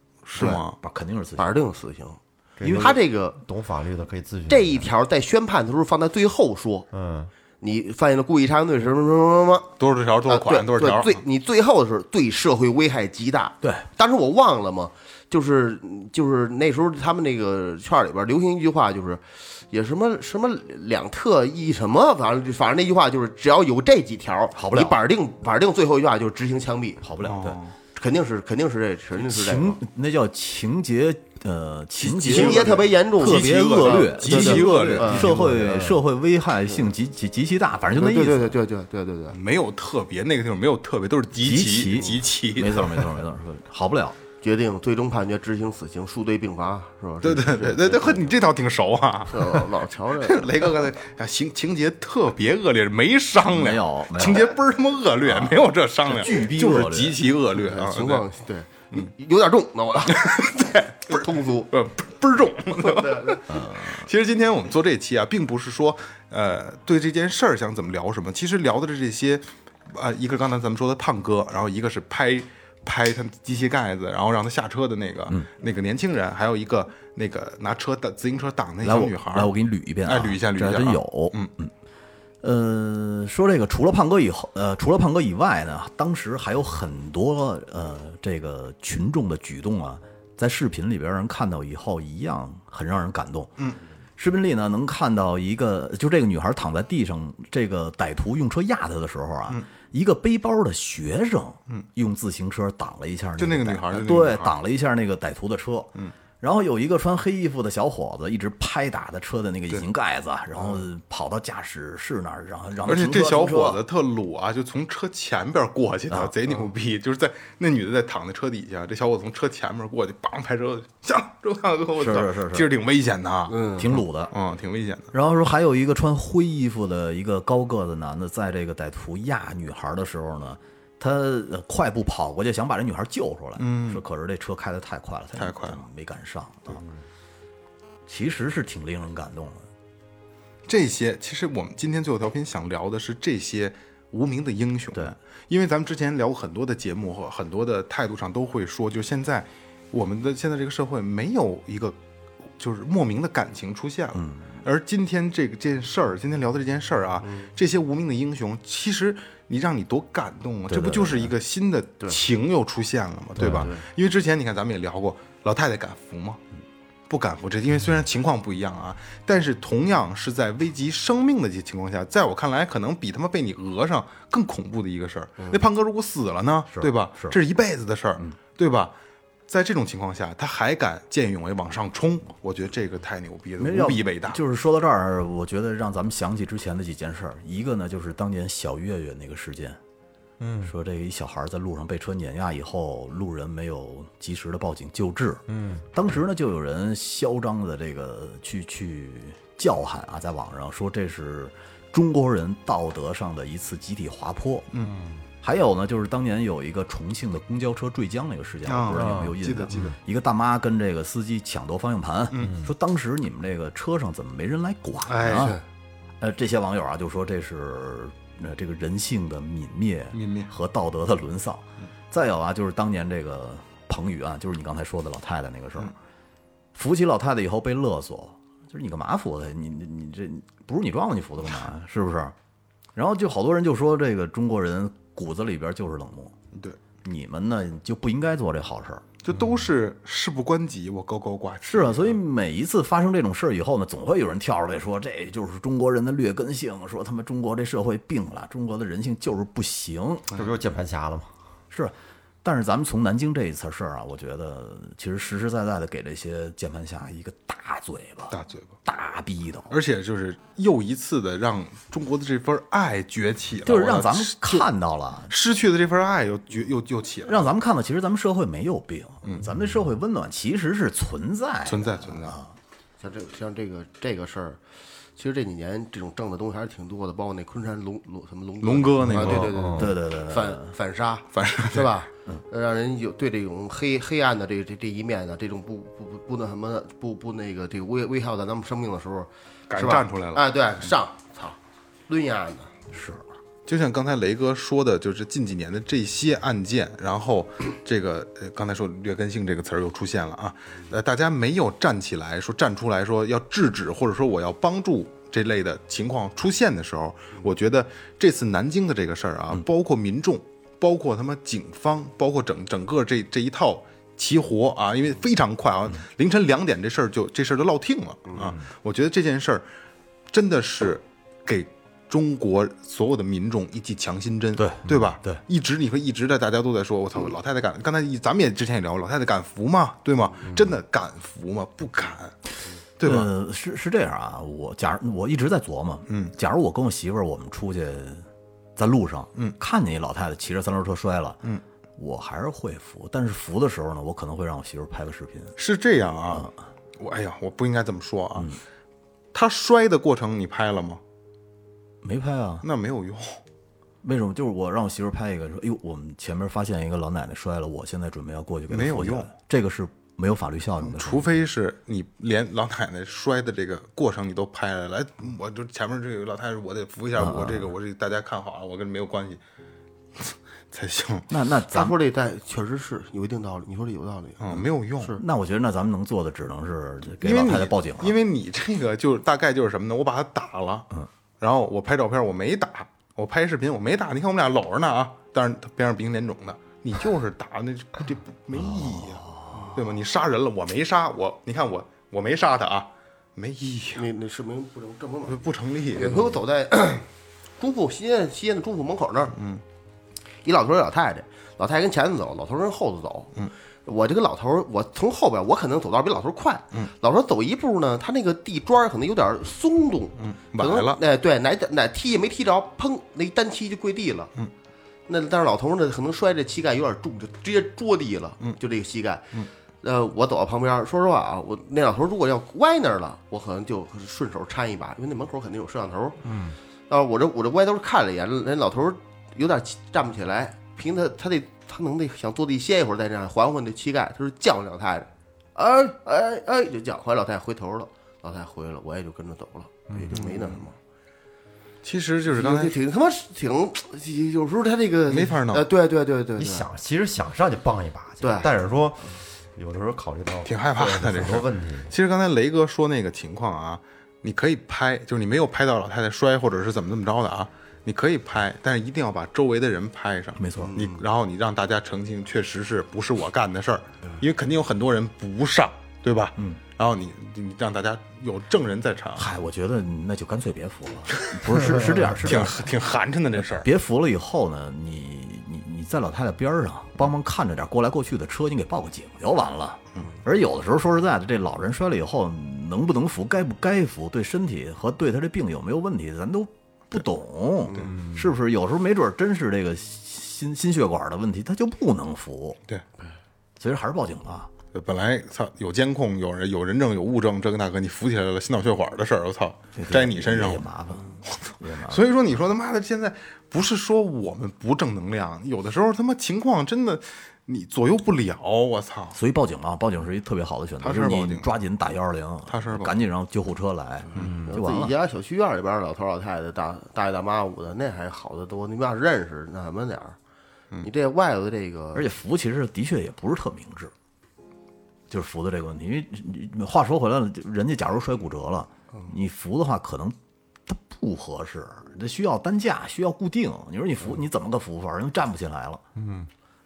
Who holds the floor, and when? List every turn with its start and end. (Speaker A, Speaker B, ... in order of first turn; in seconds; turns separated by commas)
Speaker A: 0.3-0.8, Speaker B: 0.4-1.5, Speaker C: 1.4-3.4, Speaker D: 2.6-4.9, Speaker B: 2.6-3.0, Speaker C: 4.5-6.9, Speaker D: 6.9-7.3, Speaker C: 7.6-9.7, Speaker A: 9.8-11.2, Speaker C: 10.3-27.0, Speaker B: 24.6-25.0, Speaker B: 27.0-27.6, Speaker A: 27.2-27.8, Speaker C: 27.9-29.8, Speaker B: 29.2-38.6, Speaker A: 32.0-35.6, Speaker C: 32.3-35.9, Speaker D: 35.6-35.9, Speaker C: 37.9-39.4, Speaker A: 39.3-43.1, Speaker B: 41.4-44.2, Speaker C: 44.4-48.3, Speaker A: 47.2-58.2, Speaker C: 49.3-50.5, Speaker B: 53.4-54.6, Speaker B: 55.2-57.2, Speaker C: 57.5-60.5, Speaker A: 60.1-79.5, Speaker C: 61.1-61.7, Speaker C: 62.8-63.4, Speaker B: 63.5-64.1, Speaker B: 78.8-81.7, Speaker A: 80.0-81.5, Speaker B: 82.4-93.6, Speaker B: 94.2-113.8, Speaker A: 103.4-104.5, Speaker A: 112.8-125.1, Speaker B: 122.0-122.7, Speaker C: 123.5-123.9, Speaker B: 123.8-124.3, Speaker B: 125.1-136.8, Speaker A: 133.6-134.0, Speaker A: 135.4-135.8, Speaker B: 138.1-139.7, Speaker A: 140.7-152.0, Speaker A: 152.6-166.4, Speaker B: 154.2-154.5, Speaker B: 160.7-161.3, Speaker B: 163.4-163.7, Speaker C: 163.4-163.9, Speaker A: 167.1-178.9, Speaker B: 176.7-177.4, Speaker A: 179.5-184.4, Speaker B: 183.6-189.8, Speaker D: 190.4-190.7, Speaker B: 190.6-204.7, Speaker D: 195.5-195.9, Speaker D: 204.8-205.2, Speaker B: 205.4-215.6, Speaker A: 208.7-209.9, Speaker D: 208.9-209.9, Speaker A: 212.3-212.6, Speaker D: 212.4-212.7, Speaker A: 215.1-215.6, Speaker B: 216.2-225.9, Speaker A: 220.1-220.5, Speaker B: 226.7-232.3, Speaker B: 232.9-236.3, Speaker A: 236.5-236.8, Speaker B: 237.0-239.1, Speaker A: 239.2-242.2, Speaker B: 241.7-250.3, Speaker D: 250.3-251.3, Speaker B: 251.7-259.7, Speaker A: 258.3-258.8, Speaker A: 259.7-264.7, Speaker B: 263.6-265.3, Speaker A: 265.3-267.5, Speaker B: 267.3-272.6, Speaker A: 269.2-269.5, Speaker A: 271.6-272.4, Speaker C: 273.0-274.6, Speaker C: 275.2-291.6, Speaker A: 278.6-279.7, Speaker D: 279.1-279.9, Speaker B: 279.1-280.7, Speaker A: 281.3-281.9, Speaker A: 289.7-290.4, Speaker C: 292.1-292.7, Speaker B: 292.9-293.2, Speaker A: 293.7-319.6, Speaker A: 320.3-332.4, Speaker B: 324.6-325.4, Speaker A: 333.0-333.3, Speaker B: 333.0-341.4, Speaker A: 336.1-336.3, Speaker B: 342.0-345.6, Speaker A: 345.6-348.6, Speaker A: 349.3-351.0, Speaker B: 352.0-352.6, Speaker A: 352.6-353.4, Speaker B: 354.0-361.4, Speaker A: 358.7-359.3, Speaker A: 360.8-369.4, Speaker B: 367.1-367.7, Speaker A: 370.2-371.3, Speaker B: 371.3-371.9, Speaker C: 371.7-375.2, Speaker A: 374.4-375.2, Speaker B: 375.2-378.1, Speaker A: 377.2-380.9, Speaker A: 381.4-394.1, Speaker B: 388.5-389.7, Speaker C: 389.5-389.8, Speaker C: 394.0-395.4, Speaker A: 395.3-396.4, Speaker C: 395.9-397.1, Speaker C: 397.6-399.4, Speaker A: 399.4-399.6, Speaker C: 400.4-403.3, Speaker C: 403.9-414.3, Speaker A: 410.2-411.0, Speaker C: 415.1-426.2, Speaker D: 426.2-426.6, Speaker C: 426.9-440.8, Speaker D: 439.9-440.2, Speaker A: 440.1-440.6, Speaker A: 441.8-442.8, Speaker C: 442.3-446.7, Speaker A: 445.1-445.7, Speaker D: 446.4-451.9, Speaker C: 448.2-448.5, Speaker A: 450.4-469.3, Speaker B: 460.4-460.8, Speaker C: 460.6-461.0, Speaker B: 469.1-472.6, Speaker A: 471.2-471.6, Speaker A: 472.1-473.7, Speaker B: 473.4-492.6, Speaker B: 493.6-494.5, Speaker A: 494.7-500.7, Speaker B: 499.8-502.1, Speaker A: 501.4-509.2, Speaker B: 509.1-514.9, Speaker A: 510.8-511.5, Speaker A: 512.5-513.0, Speaker C: 514.2-520.2, Speaker C: 520.8-522.1, Speaker B: 522.0-523.9, Speaker B: 525.1-530.2, Speaker B: 530.7-535.8, Speaker D: 536.0-536.3